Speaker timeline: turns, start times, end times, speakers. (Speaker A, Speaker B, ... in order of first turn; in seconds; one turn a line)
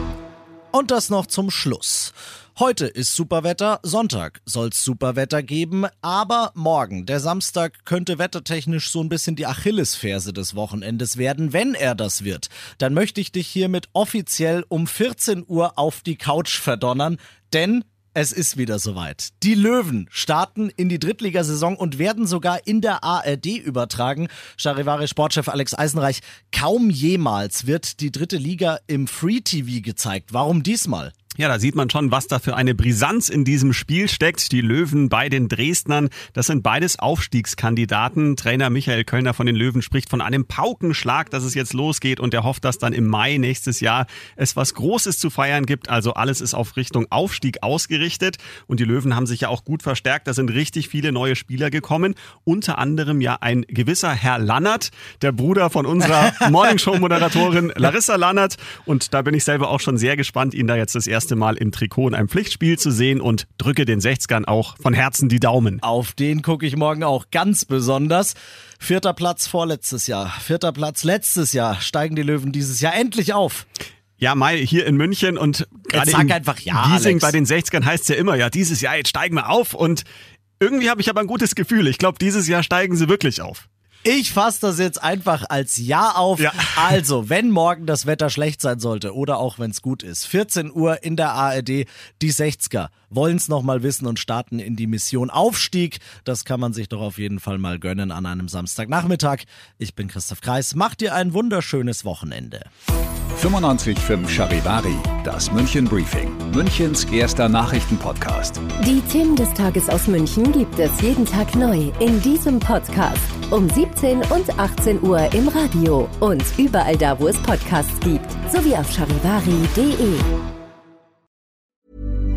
Speaker A: 0.7-31.1
Speaker B: 31.4-65.8
Speaker A: 65.8-73.7
Speaker B: 74.2-80.0
Speaker A: 75.9-77.3
Speaker B: 80.6-83.7
Speaker A: 84.0-102.7
Speaker B: 86.4-86.6
Speaker C: 103.3-108.6
Speaker D: 108.8-120.3